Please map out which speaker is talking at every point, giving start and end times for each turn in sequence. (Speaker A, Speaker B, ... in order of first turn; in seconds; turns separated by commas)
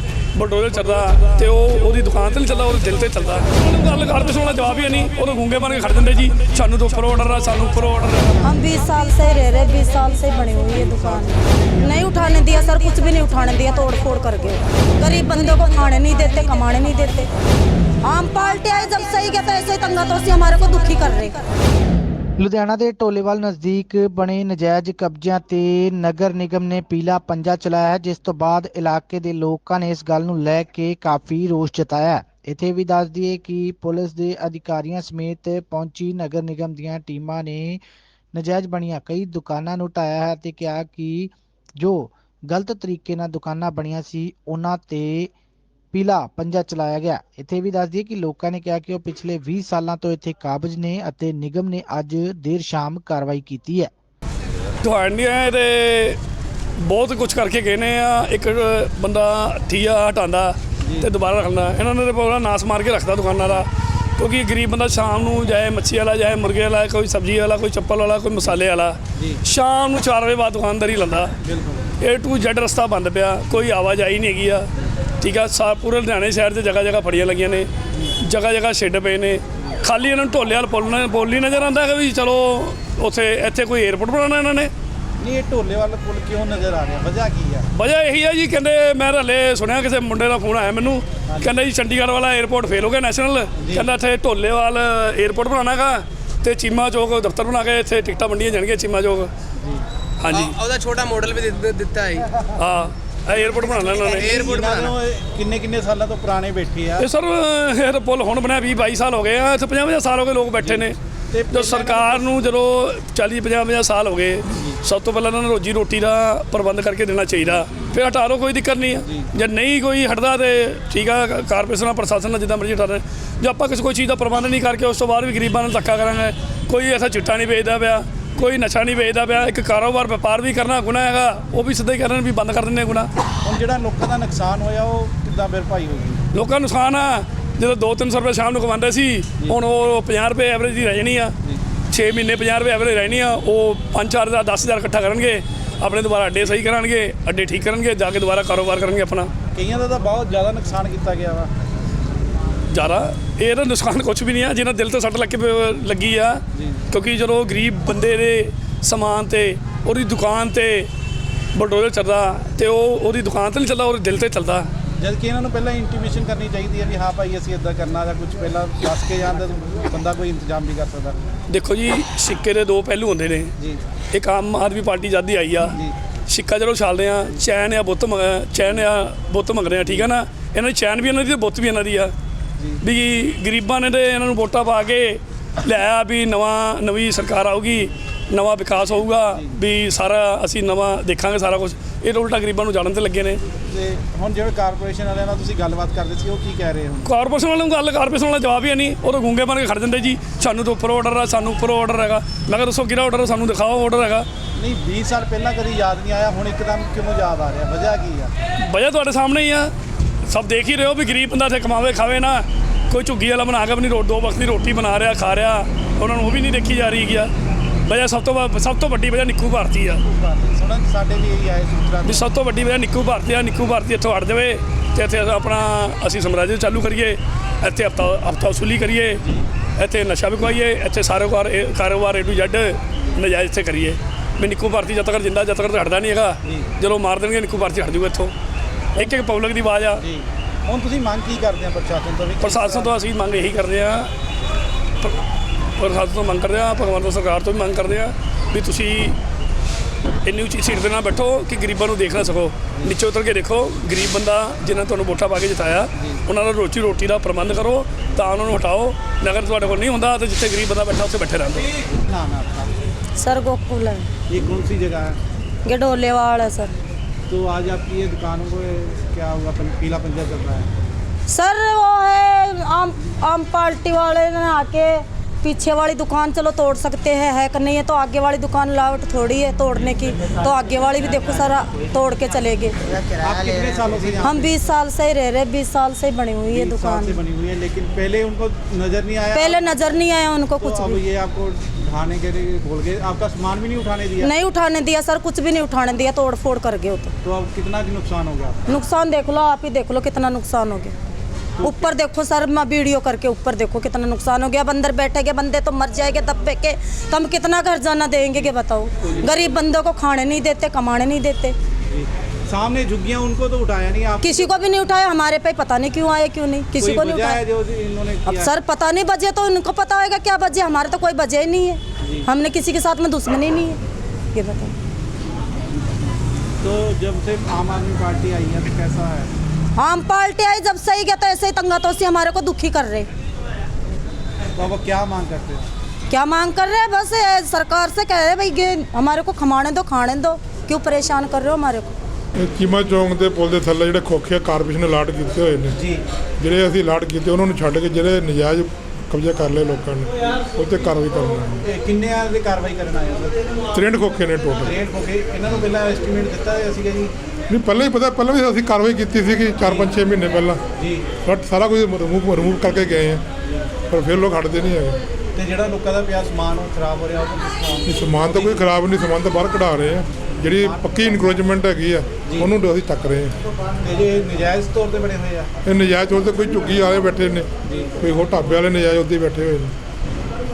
Speaker A: 0.3-8.4, Speaker B: 8.4-17.3, Speaker C: 11.2-11.9, Speaker B: 18.0-21.5, Speaker D: 22.4-37.8, Speaker D: 38.3-45.3, Speaker D: 45.9-53.9, Speaker A: 54.8-56.2, Speaker A: 56.8-71.3, Speaker C: 71.4-71.9, Speaker A: 72.0-74.7, Speaker A: 75.2-77.7, Speaker A: 78.2-84.7, Speaker C: 85.2-87.7, Speaker A: 87.7-99.3, Speaker C: 93.6-93.9, Speaker C: 99.6-99.9, Speaker A: 100.2-100.6, Speaker E: 100.3-102.3, Speaker A: 102.5-104.6, Speaker E: 103.4-104.9, Speaker C: 104.1-107.1, Speaker A: 107.0-111.0, Speaker C: 110.6-112.3, Speaker A: 111.5-133.1, Speaker C: 133.4-136.2, Speaker A: 136.3-141.4, Speaker A: 141.9-149.3, Speaker C: 149.5-151.5, Speaker A: 152.7-160.9, Speaker C: 156.6-156.8, Speaker A: 161.5-164.7, Speaker C: 165.0-171.2, Speaker A: 171.5-173.5, Speaker A: 174.1-175.8, Speaker A: 176.3-182.1, Speaker A: 182.8-193.4, Speaker C: 193.7-197.1, Speaker A: 197.1-204.3, Speaker C: 204.6-208.3, Speaker A: 208.6-209.7, Speaker A: 210.2-217.3, Speaker A: 217.8-220.0, Speaker C: 220.0-222.3, Speaker A: 222.1-229.2, Speaker A: 229.8-238.3, Speaker A: 239.0-240.0, Speaker C: 240.0-242.9, Speaker A: 242.4-244.1, Speaker A: 245.8-249.2, Speaker A: 250.2-261.7, Speaker C: 261.9-262.7, Speaker B: 263.2-264.1, Speaker C: 264.3-265.2, Speaker B: 265.6-266.7, Speaker C: 267.3-270.7, Speaker B: 271.3-282.8, Speaker C: 283.0-284.5, Speaker B: 284.2-287.2, Speaker C: 286.5-290.0, Speaker B: 289.3-291.0, Speaker C: 290.6-294.3, Speaker B: 294.2-297.1, Speaker C: 297.2-298.7, Speaker B: 298.7-300.9, Speaker C: 301.6-301.9, Speaker B: 301.6-311.6, Speaker C: 309.0-309.5, Speaker C: 311.9-314.5, Speaker B: 314.2-317.4, Speaker C: 316.8-318.5, Speaker B: 318.3-323.8, Speaker C: 322.0-322.3, Speaker B: 324.3-324.7, Speaker C: 326.6-329.3, Speaker B: 329.8-333.1, Speaker C: 334.6-335.7, Speaker B: 336.1-342.0, Speaker F: 342.4-345.8, Speaker C: 345.7-346.0, Speaker F: 346.4-351.7, Speaker C: 351.6-353.4, Speaker F: 353.7-354.8, Speaker C: 354.6-357.1, Speaker F: 357.5-360.6, Speaker C: 359.6-359.9, Speaker C: 360.8-361.1, Speaker F: 361.2-363.2, Speaker F: 363.9-365.0, Speaker C: 365.4-368.7, Speaker F: 367.9-373.4, Speaker C: 370.4-371.2, Speaker C: 372.3-372.5, Speaker C: 373.8-375.5, Speaker F: 375.6-377.5, Speaker C: 377.7-377.9, Speaker F: 378.0-379.7